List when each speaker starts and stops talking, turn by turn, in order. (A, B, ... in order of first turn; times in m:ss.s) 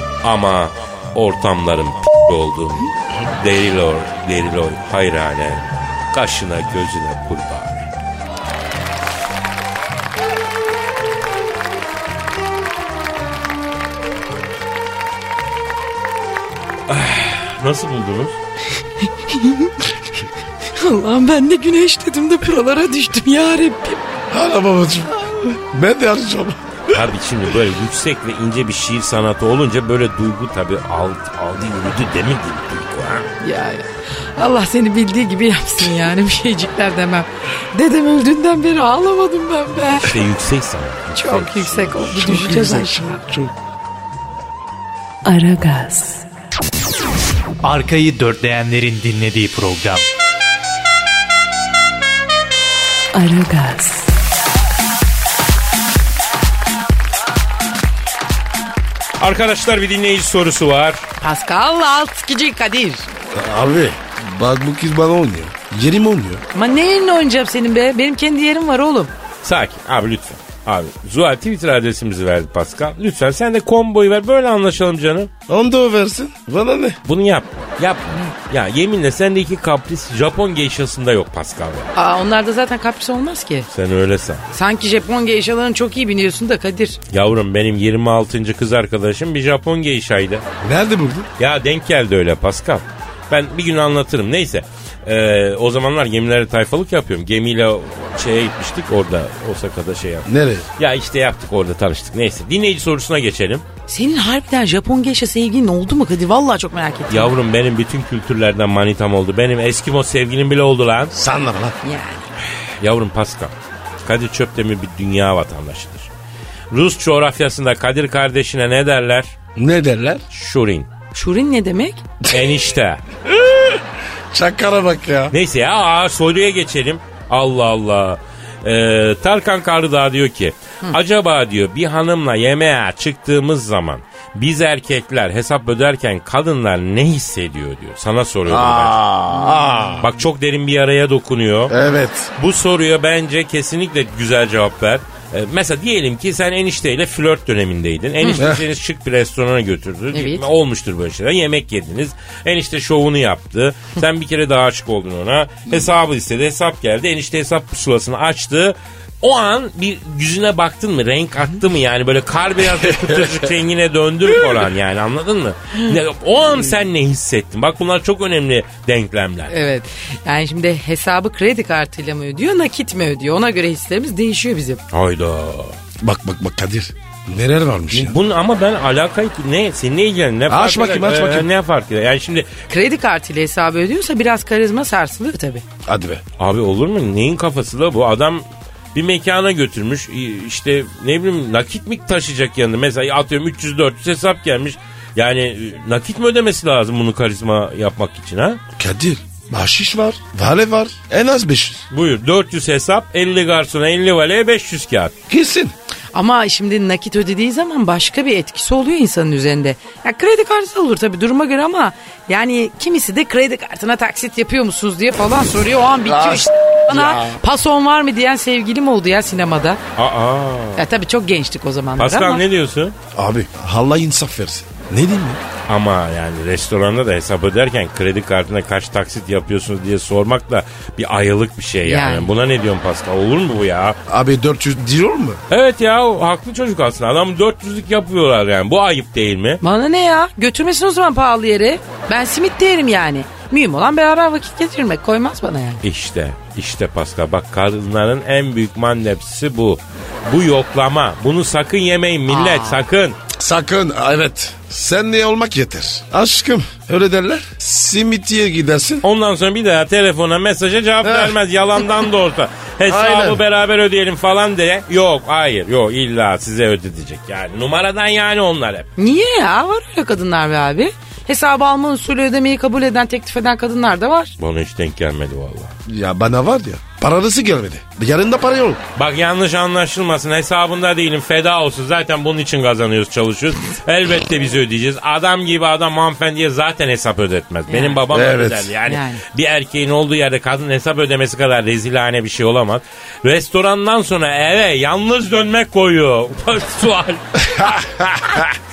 0:00.2-0:07.8 A
0:16.9-0:18.4 A
0:19.0-0:19.7 B
0:20.7-0:24.0 B
0:24.3-0:27.0 C
0:26.9-0:33.3 A
0:33.4-0:40.1 B
0:40.0-0:42.4 A
0:41.2-0:43.2 B
0:42.2-0:43.5 C
0:45.2-0:46.2 D
0:47.6-0:50.0 E
0:53.1-0:54.1 D
0:59.2-1:01.0 A
1:01.2-1:03.0 B
1:03.3-1:06.4 C
1:06.5-1:09.1 B
1:09.4-1:15.3 A
1:15.5-1:17.0 C
1:17.0-1:21.9 A
1:21.9-1:23.7 B
1:23.7-1:24.4 A
1:24.5-1:27.0 B
1:27.1-1:30.4 A
1:30.6-1:31.3 C
1:31.4-1:43.6 A
1:40.2-1:40.7 C
1:43.9-1:47.3 B
1:47.1-1:51.1 A
1:51.1-1:51.8 C
1:51.8-1:52.2 B
1:52.8-1:53.5 A
1:54.0-1:56.1 A
1:56.7-1:59.3 A
1:59.6-2:00.2 C
2:00.3-2:00.9 A
2:01.1-2:02.0 B
2:02.3-2:03.0 A
2:03.3-2:05.3 C
2:05.3-2:19.0 A
2:18.4-2:20.1 C
2:20.0-2:21.7 A
2:21.7-2:22.3 C
2:22.4-2:49.5 A
2:28.4-2:28.6 C
2:30.1-2:30.5 B
2:49.5-2:54.8 B
2:54.9-2:55.8 A
2:56.0-2:58.2 C
2:57.9-3:02.5 A
3:00.5-3:01.5 C
3:02.7-3:05.6 B
3:05.8-3:06.2 C
3:06.4-3:18.6 A
3:18.8-3:21.8 C
3:21.9-3:25.1 A
3:25.3-3:25.7 C
3:26.1-3:39.8 B
3:36.0-3:37.4 C
3:40.0-3:40.8 A
3:40.8-3:42.4 B
3:42.0-3:42.9 A
3:43.1-3:45.4 C
3:45.7-3:54.0 A
3:51.8-3:52.3 B
3:54.1-3:55.4 C
3:55.5-3:59.6 A
3:59.6-4:05.8 B
4:05.8-4:13.2 A
4:12.3-4:12.8 B
4:13.3-4:19.0 C
4:19.0-4:28.9 A
4:21.0-4:21.3 C
4:22.8-4:23.4 C
4:29.0-4:34.3 B
4:34.4-4:35.7 A
4:35.9-4:38.8 C
4:39.0-4:57.6 A
4:47.7-4:48.0 B
4:48.1-4:48.7 C
4:48.8-4:49.2 B
4:57.5-4:58.4 C